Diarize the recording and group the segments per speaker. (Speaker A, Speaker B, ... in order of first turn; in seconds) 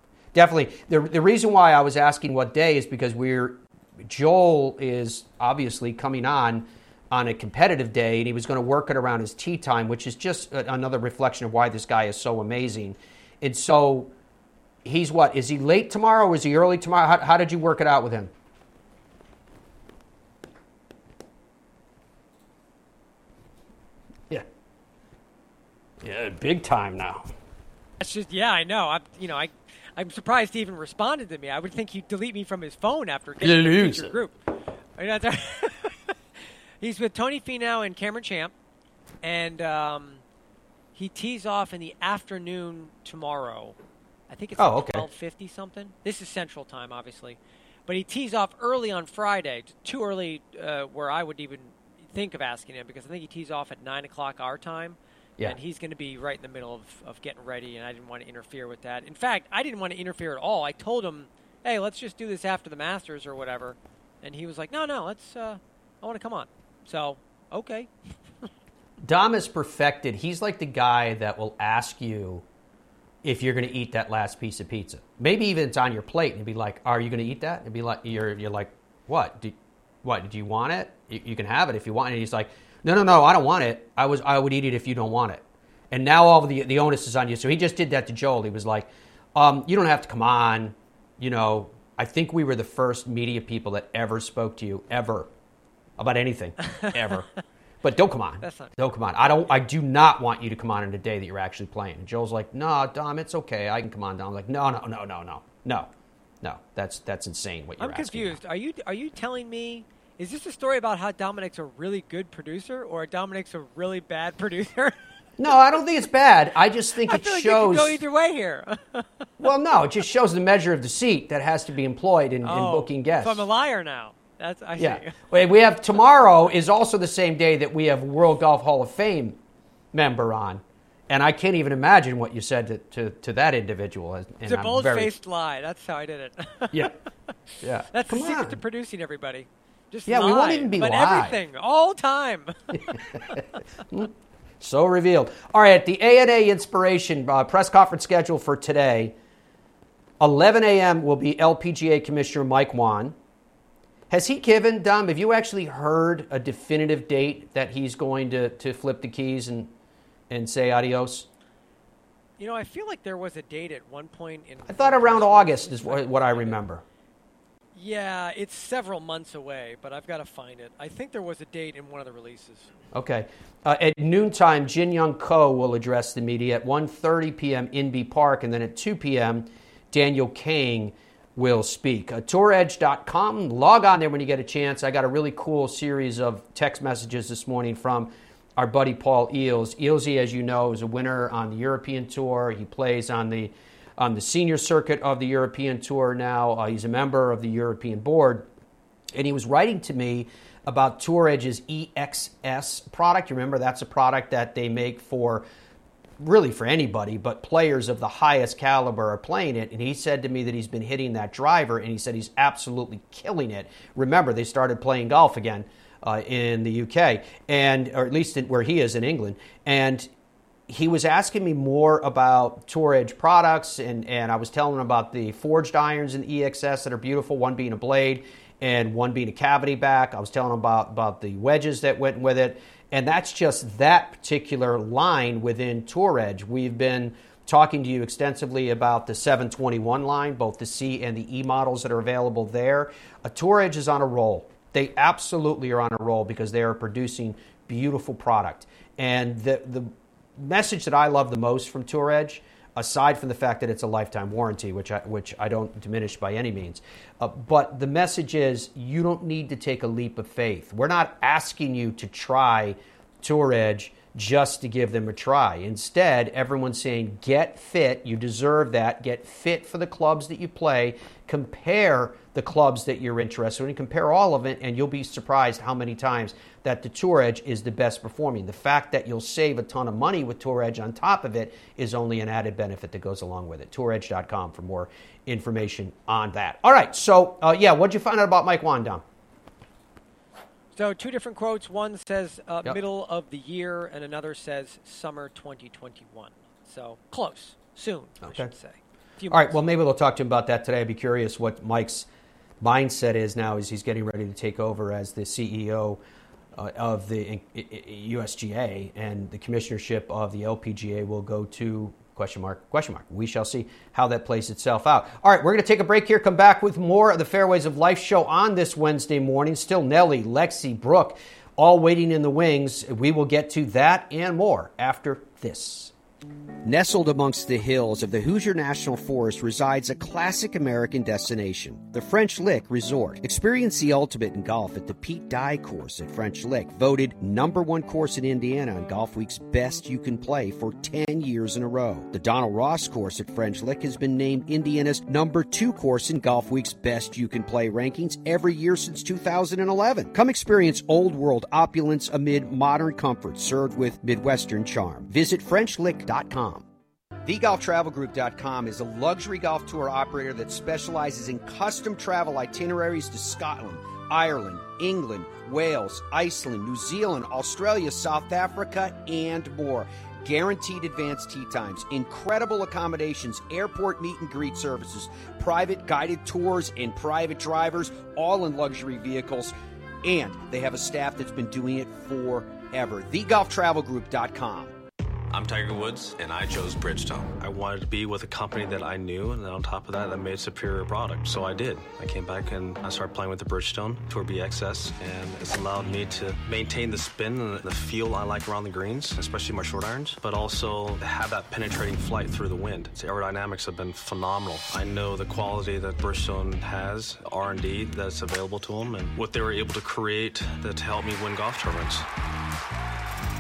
Speaker A: 0.3-14.1, 14.8-18.3, 26.0-27.3, 33.4-34.2, 44.6-45.1, 69.0-72.5, 73.2-95.3, 96.0-97.3, 97.8-105.9, 106.4-108.4, 115.4-118.0, 119.4-123.5, 124.8-129.4, 129.9-135.1, 137.6-138.6, 140.1-141.4, 142.9-149.1, 150.2-153.2, 154.1-159.7, 160.3-161.3, 164.7-166.8, 172.9-198.5, 199.1-205.4, 206.2-220.1, 220.7-289.0, 298.2-298.5, 299.3-302.1, 302.6-306.0, 306.5-325.9, 326.6-356.6, 357.2-384.7
Speaker B: 28.0-34.4, 35.0-36.1, 36.8-38.5, 39.2-40.2, 41.0-43.8, 44.3-67.9, 96.8-97.2, 98.4-98.7, 107.8-115.0, 117.1-119.3, 122.4-125.2, 134.4-136.9, 137.9-143.4, 162.4-166.6, 167.8-172.7, 290.8-299.6
Speaker C: 385.3-412.1